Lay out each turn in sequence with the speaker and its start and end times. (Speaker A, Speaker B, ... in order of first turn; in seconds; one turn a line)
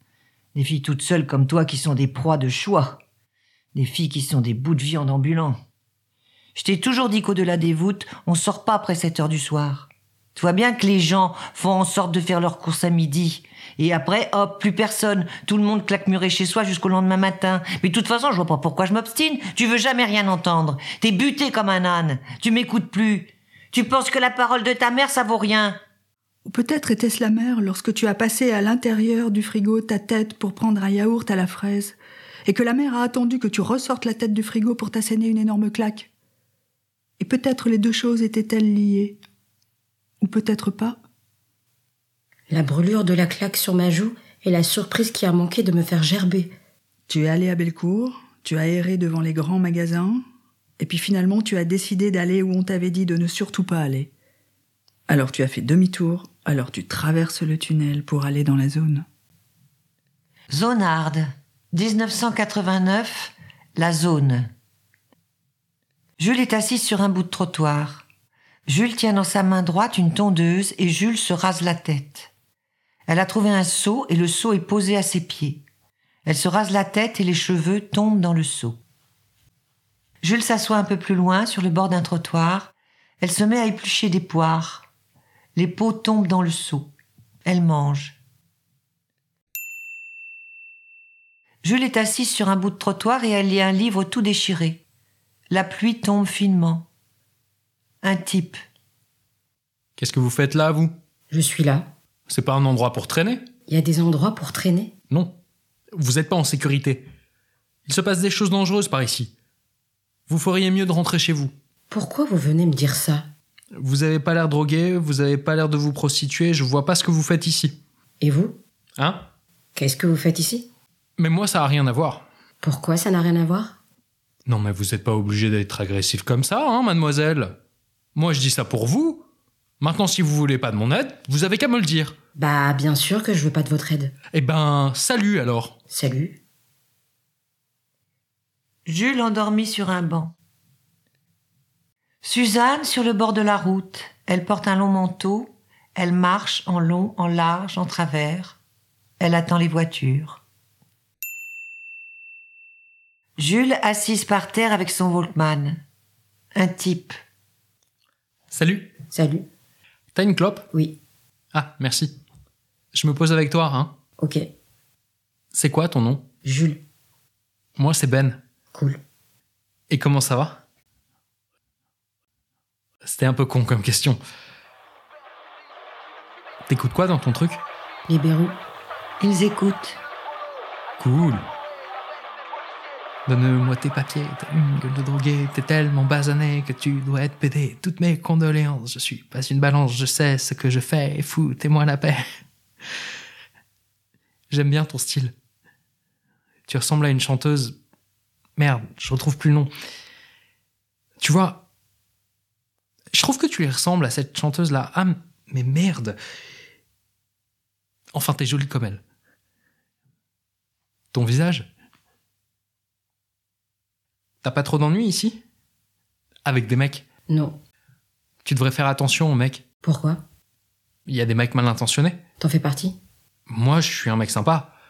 Speaker A: 0.6-3.0
Speaker A: 3.8-5.6
Speaker A: 6.5-25.8
Speaker B: 26.4-36.1
Speaker B: 37.2-39.2
Speaker B: 40.2-41.0
Speaker C: 42.5-46.5
Speaker B: 47.1-50.2
Speaker B: 50.8-54.1
Speaker B: 55.1-59.1
Speaker A: 60.5-64.5
Speaker A: 66.2-68.1
Speaker A: 68.7-72.3
Speaker A: 73.1-75.6
Speaker A: 76.3-78.8
Speaker A: 80.2-84.9
Speaker A: 85.6-86.9
Speaker A: 87.5-88.2
Speaker A: 91.6-94.8
Speaker A: 95.5-96.9
Speaker A: 98.0-98.6
Speaker D: 100.0-101.0
Speaker C: 101.3-101.9
Speaker D: 102.3-103.4
Speaker C: 103.7-104.9
Speaker D: 105.1-105.4
Speaker D: 106.0-107.1
Speaker D: 107.9-109.3
Speaker D: 110.3-111.5
Speaker C: 111.9-113.3
Speaker D: 113.8-117.8
Speaker C: 118.2-118.6
Speaker D: 119.0-119.3
Speaker C: 119.8-120.7
Speaker D: 121.2-122.3
Speaker C: 122.6-123.8
Speaker D: 124.5-127.6
Speaker D: 128.2-129.3
Speaker D: 129.8-132.2
Speaker C: 132.4-134.1
Speaker D: 134.3-135.8
Speaker C: 135.9-136.4
Speaker A: 138.9-140.3
Speaker A: 142.2-148.6
Speaker A: 149.2-150.4
Speaker A: 153.4-155.8
Speaker A: 156.6-157.2
Speaker D: 158.5-158.9
Speaker C: 159.1-159.5
Speaker D: 160.2-160.7
Speaker C: 160.7-161.0
Speaker D: 161.5-162.1
Speaker D: 162.9-164.0
Speaker C: 164.2-164.4
Speaker D: 165.5-166.3
Speaker C: 166.4-166.8
Speaker D: 167.8-168.4
Speaker C: 168.7-169.0
Speaker D: 169.9-170.6
Speaker D: 173.0-174.2
Speaker D: 176.7-177.6
Speaker C: 178.1-178.6
Speaker A: 179.2-180.0
Speaker D: 181.0-181.4
Speaker D: 183.3-192.2
Speaker D: 194.5-195.3
Speaker D: 196.7-197.8
Speaker D: 198.6-199.7
Speaker D: 201.2-201.6
Speaker D: 203.1-206.2
Speaker D: 208.1-209.0
Speaker D: 211.1-211.7
Speaker D: 214.4-215.4
Speaker D: 216.4-217.1
Speaker C: 217.3-217.6
Speaker D: 218.4-219.6
Speaker C: 219.8-220.2
Speaker D: 221.1-222.2
Speaker C: 222.4-223.0
Speaker D: 223.5-224.8